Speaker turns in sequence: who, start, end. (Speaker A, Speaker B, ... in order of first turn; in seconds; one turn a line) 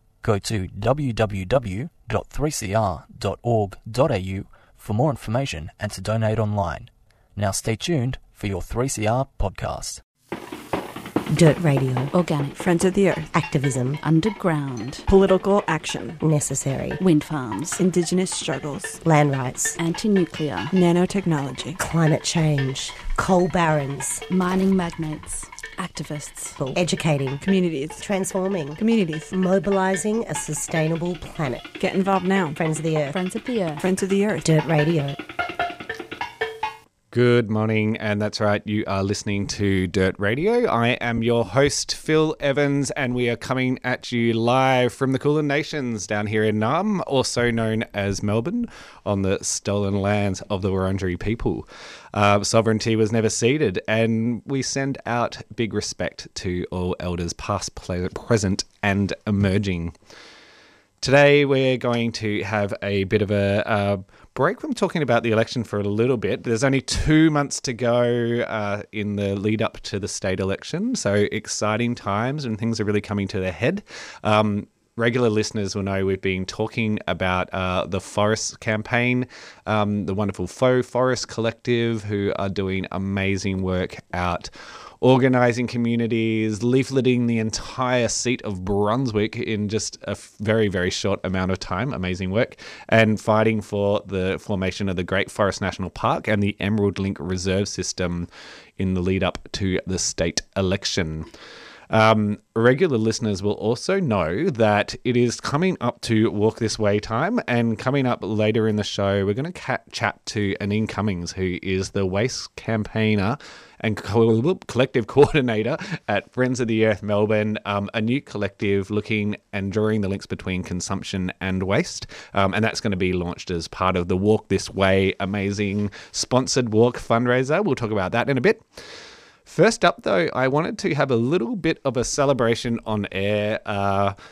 Speaker A: 0.2-10.0
Speaker B: 11.3-12.1
Speaker C: 12.1-12.6
Speaker D: 12.6-13.3
Speaker B: 13.3-14.0
Speaker C: 14.0-15.1
Speaker D: 15.1-16.2
Speaker B: 16.2-17.0
Speaker C: 17.0-17.8
Speaker D: 17.8-19.0
Speaker B: 19.0-19.8
Speaker C: 19.8-20.8
Speaker D: 20.7-21.8
Speaker B: 21.8-24.2
Speaker C: 24.3-26.6
Speaker B: 26.6-27.4
Speaker D: 27.4-28.0
Speaker B: 28.0-31.7
Speaker C: 28.8-29.2
Speaker D: 31.8-32.6
Speaker B: 32.5-33.2
Speaker C: 33.1-33.9
Speaker D: 33.8-34.5
Speaker B: 34.4-35.2
Speaker E: 37.1-60.0
Speaker E: 61.0-101.3
Speaker E: 101.9-128.7
Speaker E: 129.5-134.2